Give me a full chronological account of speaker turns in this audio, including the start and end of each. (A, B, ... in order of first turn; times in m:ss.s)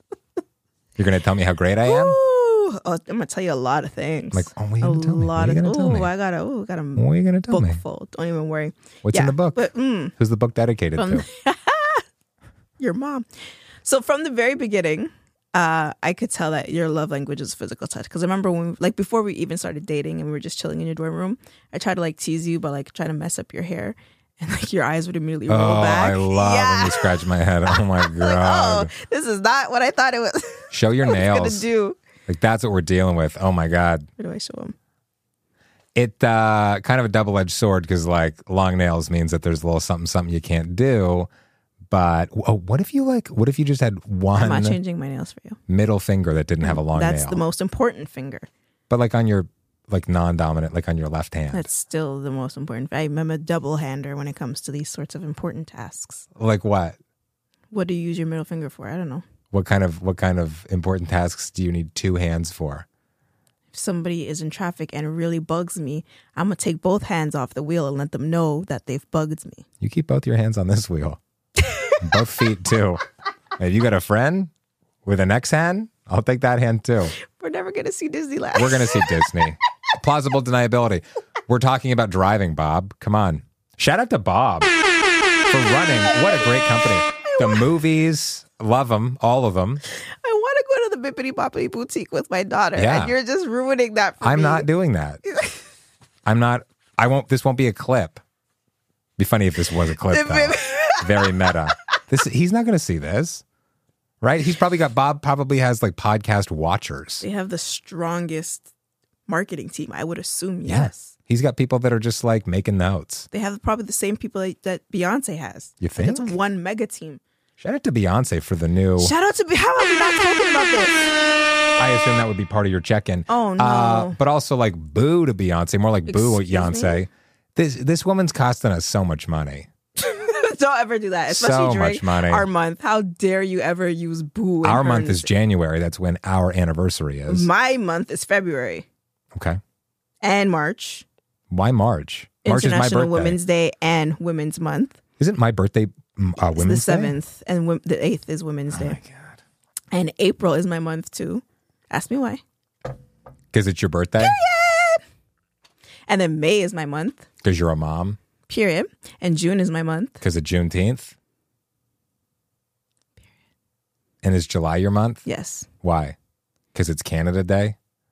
0:01.0-0:02.2 A
0:01.8-0:10.1 B
0:04.3-0:06.1 A
0:07.0-0:07.8 A
0:09.0-0:11.2 A
0:11.0-0:12.0 B
0:12.8-0:13.3 B
0:13.8-0:32.0 B
0:25.5-0:28.9 A
0:30.7-0:31.7 A
0:32.3-0:34.1 A
0:34.2-0:34.8 B
0:36.0-0:41.3 A
0:41.9-0:44.8 A
0:44.4-0:45.6 B
0:45.7-0:47.4 A
0:46.6-0:48.5 B
0:48.9-0:51.7 A
0:51.5-0:56.3 B
0:56.4-0:57.0 A
0:57.7-0:59.2 B
0:59.5-1:02.9 A
1:03.7-1:09.6 B
1:09.8-1:11.2 A
1:11.6-1:12.1 B
1:12.0-1:13.0 A
1:13.6-1:14.5 A
1:15.0-1:17.2 A
1:17.2-1:19.3 B
1:18.6-1:24.7 A
1:25.5-1:29.8 A
1:27.2-1:27.6 B
1:30.0-1:34.7 B
1:32.8-1:33.1 A
1:34.2-1:35.2 A
1:35.2-1:35.6 B
1:36.2-1:38.2 A
1:39.2-1:43.4 A
1:40.0-1:41.5 B
1:44.2-1:47.2 A
1:47.2-1:48.7 B
1:49.3-1:51.1 B
1:50.7-1:53.3 A
1:53.3-1:57.2 B
1:55.8-1:56.3 A
1:57.6-1:59.1 A
1:59.0-2:00.9 B
2:01.8-2:09.7 A
2:03.3-2:04.2 B
2:06.1-2:07.0 B
2:10.0-2:15.3 B
2:11.3-2:12.5 A
2:14.6-2:17.5 A
2:17.3-2:18.9 B
2:19.3-2:19.6 A
2:20.2-2:21.0 B
2:21.5-2:23.4 A
2:22.4-2:25.0 B
2:25.2-2:27.2 A
2:26.6-2:29.0 B
2:28.7-2:29.4 A
2:29.9-2:32.4 B
2:33.5-2:34.4 A
2:34.2-2:35.0 B
2:36.1-2:37.3 B
2:37.4-2:38.2 A
2:38.5-2:40.2 B
2:40.2-2:41.1 A
2:44.2-2:45.2 A
2:45.2-2:45.7 B
2:45.8-2:46.2 A
2:46.7-2:47.8 A